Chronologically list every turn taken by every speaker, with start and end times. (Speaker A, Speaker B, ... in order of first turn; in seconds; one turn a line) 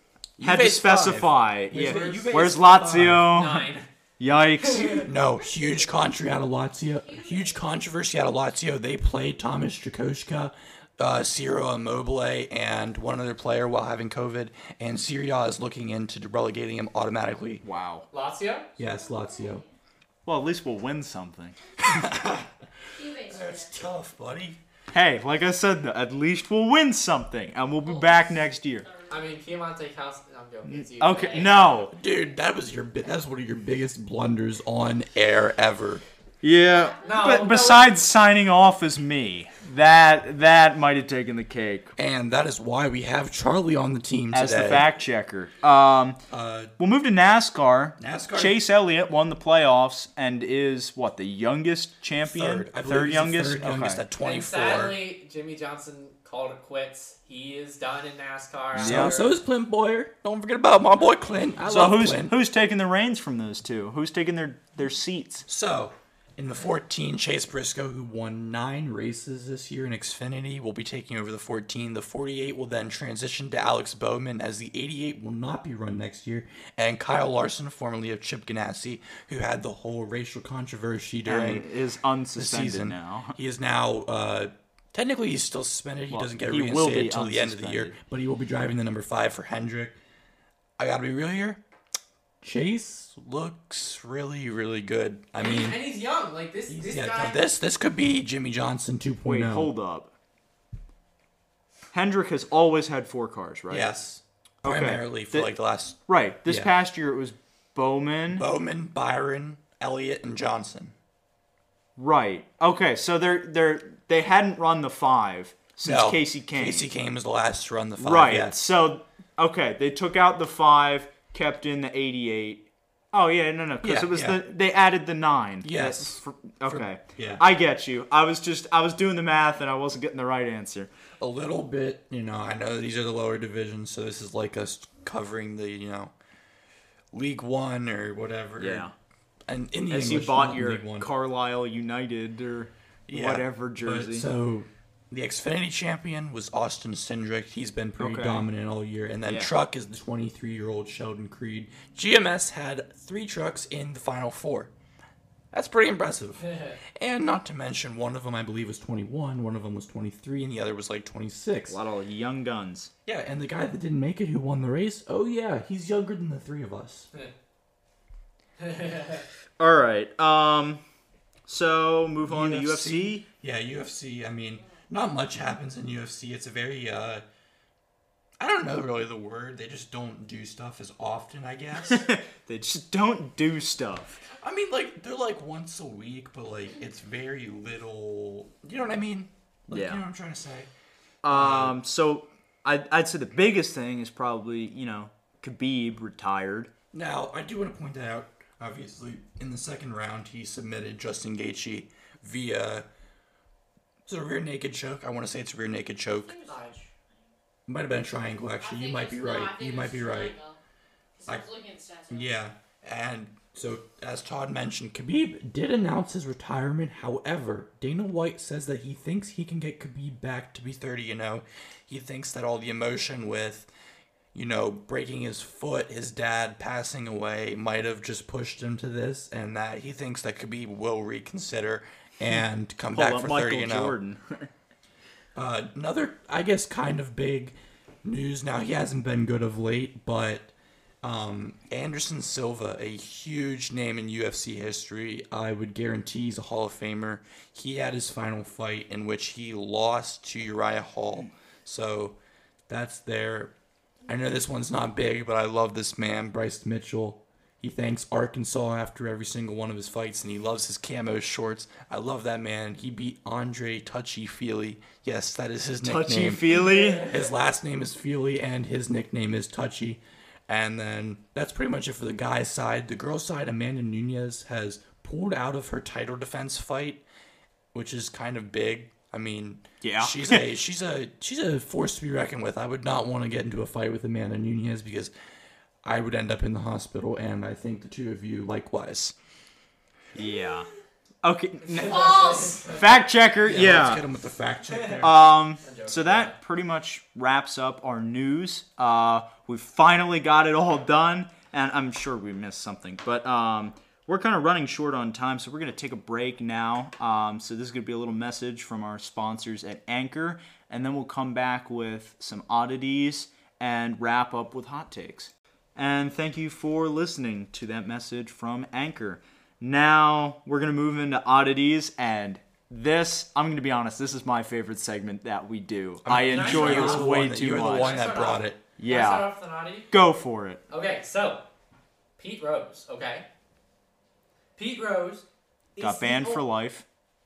Speaker A: 0.4-3.4
Speaker B: 0.4-5.1
Speaker C: 1.8-2.3
Speaker C: 3.3-3.9
Speaker C: 4.6-5.1
Speaker A: 5.0-17.6
Speaker D: 5.4-5.8
Speaker D: 7.0-7.6
Speaker B: 17.6-18.1
Speaker C: 18.1-18.7
Speaker A: 18.8-19.6
Speaker D: 18.9-19.6
Speaker B: 20.3-21.6
Speaker A: 21.8-22.5
Speaker D: 22.9-23.7
Speaker A: 23.2-24.6
Speaker B: 24.9-28.9
Speaker D: 27.9-28.2
Speaker D: 28.8-29.4
Speaker C: 29.1-31.6
Speaker B: 30.7-31.9
Speaker A: 31.9-36.0
Speaker B: 36.4-41.9
Speaker D: 36.6-37.3
Speaker C: 37.0-37.9
Speaker A: 42.0-44.9
Speaker B: 44.3-46.2
Speaker A: 46.3-46.7
Speaker B: 46.8-54.0
Speaker A: 48.0-48.6
Speaker A: 52.2-55.0
Speaker C: 54.2-59.3
Speaker B: 58.8-59.2
Speaker A: 58.8-62.4
Speaker B: 61.7-65.5
Speaker A: 65.5-81.7
Speaker B: 81.2-83.4
Speaker A: 82.4-90.0
Speaker B: 86.1-88.0
Speaker A: 90.8-91.6
Speaker A: 92.4-95.8
Speaker C: 95.4-97.4
Speaker A: 96.7-99.7
Speaker B: 99.2-100.1
Speaker B: 101.9-103.9
Speaker A: 103.7-106.7
Speaker B: 104.6-105.5
Speaker B: 106.1-108.5
Speaker A: 108.3-110.9
Speaker B: 112.0-116.9
Speaker A: 115.8-118.6
Speaker B: 118.0-130.9
Speaker A: 123.8-124.4
Speaker A: 125.6-127.4
Speaker A: 131.2-136.1
Speaker A: 137.1-138.9
Speaker B: 138.6-138.9
Speaker A: 139.5-141.1
Speaker B: 139.9-144.3
Speaker A: 143.1-154.7
Speaker B: 148.0-148.5
Speaker B: 149.3-149.5
Speaker A: 155.5-161.8
Speaker C: 156.5-156.7
Speaker B: 161.7-162.9
Speaker A: 163.1-167.1
Speaker C: 168.6-169.2
Speaker B: 169.6-170.8
Speaker B: 171.5-173.2
Speaker A: 172.2-177.2
Speaker A: 178.4-182.1
Speaker B: 181.9-184.2
Speaker A: 184.4-190.7
Speaker B: 189.7-190.0
Speaker B: 191.2-196.7
Speaker A: 191.3-191.8
Speaker A: 196.9-202.9
Speaker A: 204.1-206.4
Speaker D: 206.2-206.8
Speaker C: 206.5-206.8
Speaker A: 207.7-210.3
Speaker D: 208.6-210.6
Speaker D: 211.2-212.3
Speaker A: 212.1-223.7
Speaker A: 224.3-234.0
Speaker B: 232.9-234.5
Speaker A: 235.3-240.5
Speaker A: 241.0-252.2
Speaker A: 252.7-253.5
Speaker A: 254.1-277.0
Speaker B: 265.8-267.1
Speaker C: 266.6-266.9
Speaker A: 277.7-285.1
Speaker B: 279.8-280.5
Speaker A: 285.8-289.1
Speaker B: 290.1-290.7
Speaker B: 291.2-294.0
Speaker C: 291.7-293.0
Speaker D: 291.9-292.6
Speaker A: 293.5-295.2
Speaker C: 294.7-296.4
Speaker B: 295.0-328.1
Speaker A: 326.0-328.6
Speaker C: 326.2-329.9
Speaker B: 328.8-329.3
Speaker B: 329.9-330.6
Speaker C: 330.7-331.4
Speaker C: 332.2-333.3
Speaker C: 334.6-335.2
Speaker C: 335.8-336.4
Speaker B: 335.8-336.9